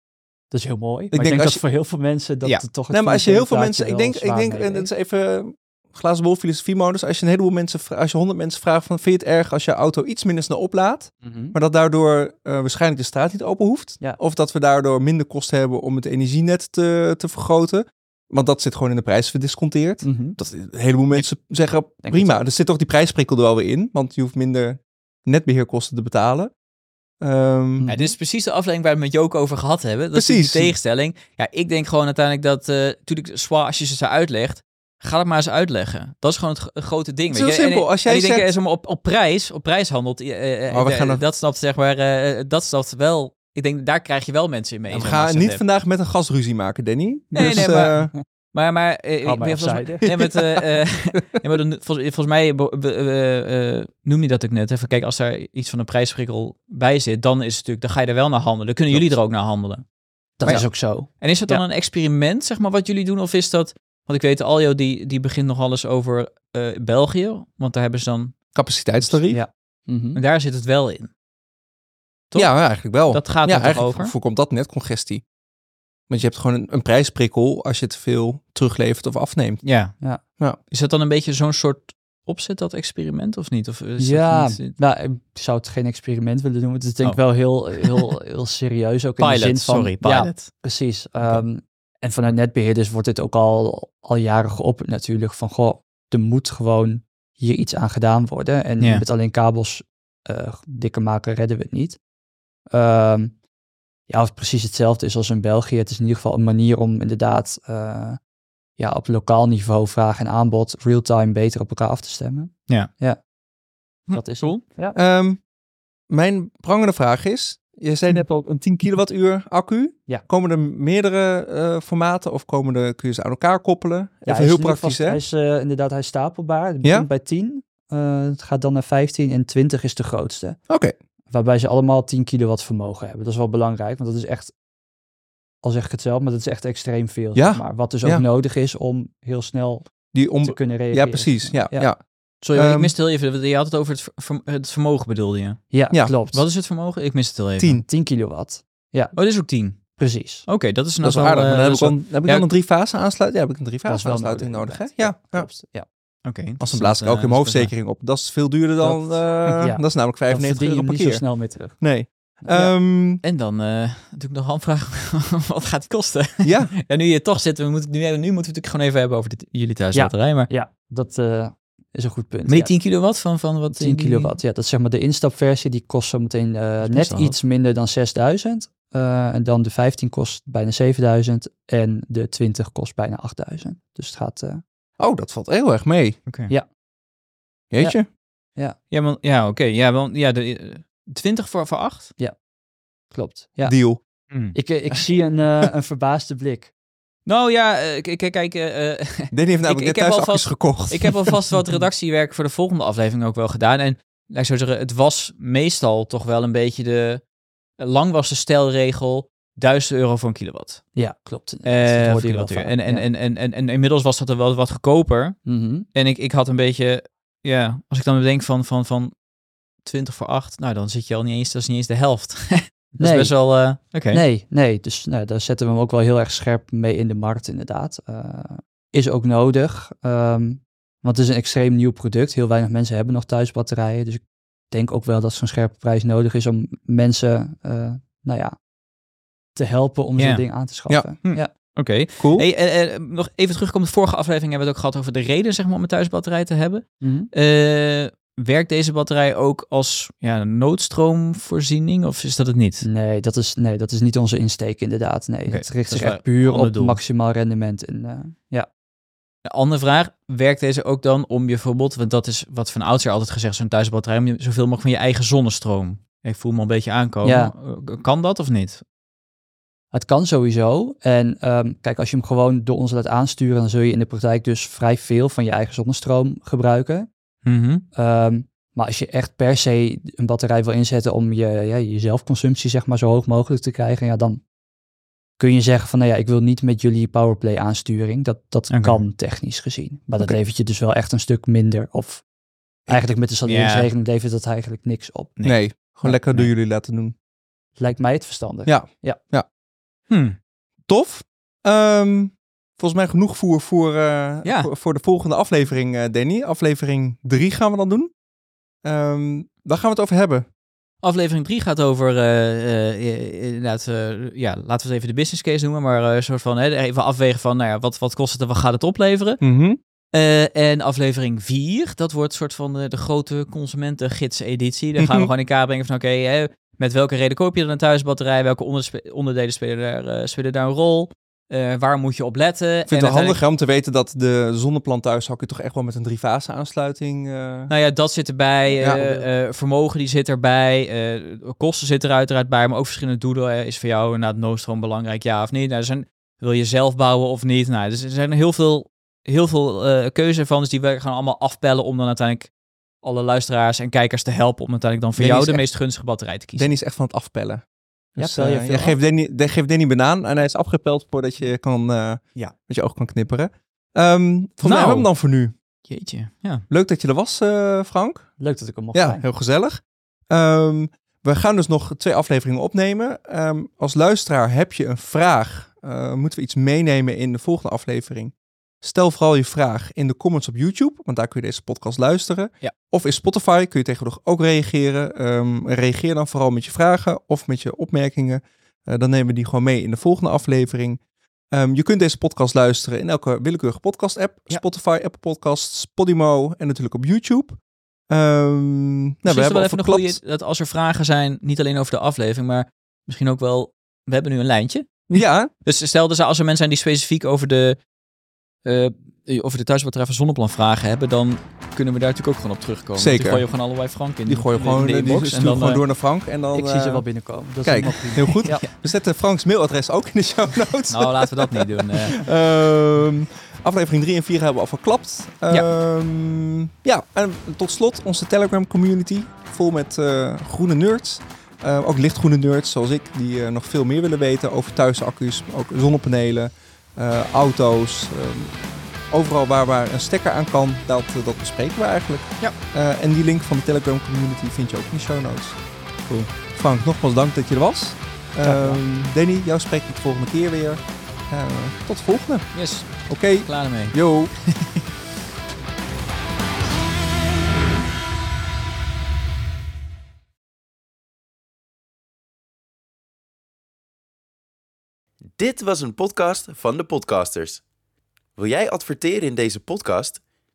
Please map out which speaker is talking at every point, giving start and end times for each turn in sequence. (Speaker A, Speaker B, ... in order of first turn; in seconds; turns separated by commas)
Speaker A: 0.5-4.9, Speaker B: 1.1-1.6, Speaker B: 2.9-26.5, Speaker A: 11.2-11.5, Speaker A: 20.0-20.4, Speaker A: 22.0-22.4, Speaker B: 27.2-27.9, Speaker A: 27.8-28.1, Speaker C: 27.9-45.6, Speaker B: 30.1-30.7, Speaker B: 37.3-38.5, Speaker B: 40.7-41.2, Speaker B: 44.9-48.1, Speaker A: 47.3-48.2, Speaker C: 47.4-48.0, Speaker C: 48.5-59.8, Speaker A: 49.2-50.1, Speaker B: 50.0-50.6, Speaker A: 60.4-61.6, Speaker C: 60.4-68.3, Speaker B: 68.5-69.4, Speaker A: 69.3-70.2, Speaker C: 70.1-71.1, Speaker C: 72.3-74.1, Speaker B: 72.3-75.2, Speaker B: 76.1-79.6, Speaker C: 79.6-80.0, Speaker C: 80.7-84.8, Speaker A: 84.0-102.0, Speaker C: 87.8-88.1, Speaker C: 89.2-90.5, Speaker A: 102.7-103.3, Speaker A: 104.1-108.2, Speaker A: 108.8-113.2, Speaker C: 114.1-114.6, Speaker A: 114.1-115.0, Speaker B: 114.9-115.4, Speaker B: 116.1-125.2, Speaker A: 124.2-130.6, Speaker B: 126.8-127.1, Speaker A: 131.3-134.5, Speaker A: 135.6-141.9, Speaker B: 137.3-138.2, Speaker B: 140.1-142.0, Speaker C: 142.4-145.7, Speaker B: 142.5-142.9, Speaker A: 145.7-146.4, Speaker C: 146.3-147.8, Speaker B: 147.6-147.8, Speaker A: 147.8-149.1, Speaker C: 149.1-149.8, Speaker A: 150.0-150.4, Speaker C: 150.4-152.5, Speaker B: 151.0-155.5, Speaker A: 153.8-155.8, Speaker C: 156.2-157.7, Speaker B: 156.6-161.2, Speaker A: 158.8-161.8, Speaker B: 161.8-163.2, Speaker C: 162.5-170.5, Speaker B: 166.4-166.7, Speaker A: 169.9-172.7, Speaker C: 172.5-174.3, Speaker A: 173.7-184.6, Speaker C: 176.8-177.3, Speaker B: 185.0-186.2, Speaker B: 187.7-188.1, Speaker C: 188.9-192.1, Speaker A: 193.1-193.8, Speaker B: 193.6-194.0, Speaker A: 194.5-196.7, Speaker C: 197.2-207.2, Speaker B: 199.3-201.4, Speaker C: 207.8-210.8, Speaker A: 210.9-213.1, Speaker C: 211.6-215.4, Speaker A: 215.4-215.8, Speaker C: 215.9-219.1, Speaker C: 219.8-224.2, Speaker A: 223.0-223.3, Speaker A: 224.1-238.6, Speaker A: 239.5-241.5, Speaker C: 240.2-240.4, Speaker C: 241.2-252.8, Speaker B: 242.2-242.4, Speaker A: 247.0-247.3, Speaker A: 252.8-258.7, Speaker C: 255.5-257.0, Speaker C: 259.4-268.8, Speaker A: 267.2-267.5, Speaker A: 269.9-277.1, Speaker C: 277.4-277.8, Speaker A: 277.9-284.4, Speaker A: 285.4-292.2, Speaker C: 288.7-289.0, Speaker A: 292.9-295.3, Speaker C: 293.4-293.9, Speaker C: 295.4-296.5, Speaker B: 295.4-297.1, Speaker A: 297.8-299.2, Speaker B: 298.6-299.4, Speaker C: 300.1-300.4, Speaker B: 300.9-308.1, Speaker C: 304.4-304.7, Speaker B: 308.8-310.4, Speaker C: 311.0-319.4, Speaker B: 319.4-319.8, Speaker C: 320.1-333.4, Speaker B: 325.0-325.3, Speaker B: 332.9-337.7, Speaker C: 337.7-352.5, Speaker A: 338.6-339.3, Speaker C: 353.0-356.7, Speaker B: 355.1-355.6, Speaker B: 356.6-357.6, Speaker B: 358.1-365.5, Speaker A: 358.2-358.9, Speaker C: 364.6-365.1, Speaker C: 365.9-366.6, Speaker B: 366.7-368.3, Speaker A: 368.4-369.2, Speaker B: 368.9-391.0, Speaker B: 391.5-400.2, Speaker C: 399.2-405.1, Speaker B: 405.1-405.5, Speaker C: 405.6-407.8, Speaker C: 408.6-415.8, Speaker B: 412.9-413.5, Speaker B: 414.2-417.1, Speaker A: 416.5-418.6, Speaker B: 417.6-445.6, Speaker C: 418.3-418.7, Speaker C: 420.9-422.2, Speaker B: 446.5-454.4, Speaker A: 448.4-448.8, Speaker C: 452.5-454.8, Speaker D: 465.4-467.6, Speaker D: 468.4-470.2